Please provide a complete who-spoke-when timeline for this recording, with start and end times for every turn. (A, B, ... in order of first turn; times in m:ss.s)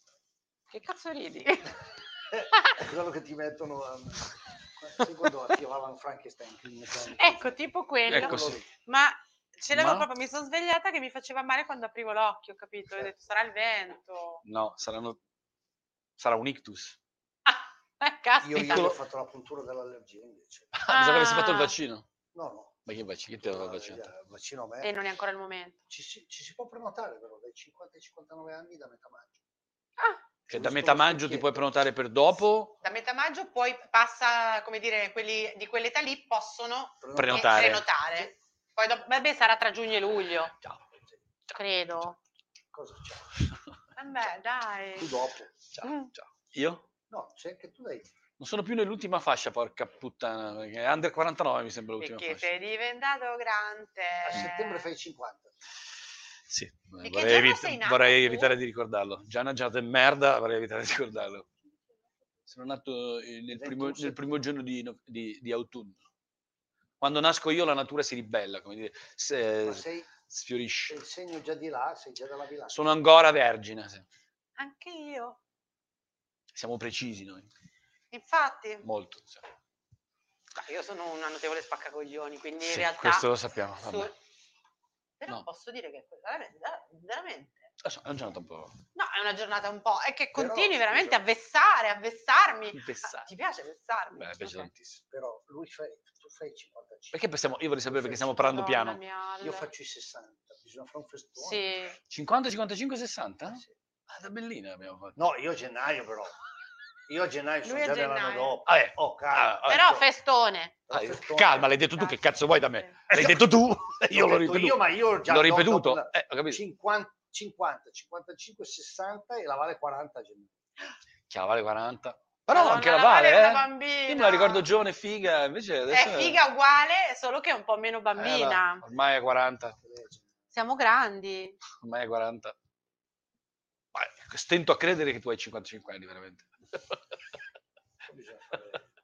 0:00.7-0:01.7 A
0:02.3-0:04.2 B
0:02.5-0:02.8 A
0:04.8-0:07.5 B
0:07.2-0:14.4 A
0:08.1-0:08.6 C
0:08.1-0:08.6 B
0:09.7-0:10.1 C
0:14.4-0:15.2 C
0:16.2-0:17.0 C
0:17.4-0:18.9 A
0:18.4-0:20.7 B
0:18.6-0:18.9 C
0:20.7-0:22.0 C
0:20.9-0:21.7 A
0:22.3-0:22.8 B
0:22.9-0:24.0 C
0:23.3-0:24.9 B
0:24.8-0:25.8 A
0:25.9-0:29.4 B
0:30.5-0:31.7 B
0:30.5-0:32.7 C
0:32.8-0:40.5 A
0:37.0-0:38.3 B
0:37.2-0:37.8 C
0:41.5-0:42.2 A
0:42.7-0:43.3 B
0:44.0-0:45.1 A
0:45.0-0:45.5 B
0:45.7-0:46.8 C
0:45.8-0:46.1 A
0:47.1-0:48.1 B
0:48.4-0:52.5 C
0:52.0-0:54.8 A
0:54.2-0:55.5 B
0:56.5-1:01.5 C
0:57.0-0:58.5 A
1:02.5-1:06.0 C
1:03.5-1:04.2 B
1:07.0-1:11.0 C
1:09.6-1:10.1 B
1:10.9-1:12.8 B
1:12.7-1:14.0 C
1:14.6-1:15.4 A
1:16.5-1:17.5 C
1:18.1-1:18.8 A
1:18.8-1:19.4 C
1:20.6-1:23.3 A
1:22.6-1:24.1 C
1:23.8-1:24.1 A
1:25.2-1:27.7 A
1:27.8-1:28.7 C
1:29.0-1:34.7 A
1:30.3-1:31.2 B
1:32.7-1:33.3 C
1:34.2-1:35.0 C
1:35.1-1:37.2 B
1:37.1-1:39.0 C
1:37.8-1:38.4 B
1:38.4-1:39.7 A
1:39.4-1:41.7 B
1:41.4-1:42.0 A
1:42.1-1:45.2 C
1:45.2-1:46.3 B
1:47.1-1:50.0 B
1:47.6-1:48.6 A
1:48.7-1:49.8 C
1:49.7-1:50.7 A
1:50.9-1:51.7 B
1:50.9-1:56.6 C
1:51.8-1:52.2 A
1:53.1-2:00.5 B
2:01.3-2:06.4 C
2:02.5-2:04.6 A
2:05.9-2:08.8 A
2:08.2-2:09.7 C
2:09.8-2:10.2 B
2:10.5-2:11.6 A
2:11.8-2:12.5 C
2:13.9-2:17.0 C
2:18.1-2:18.8 B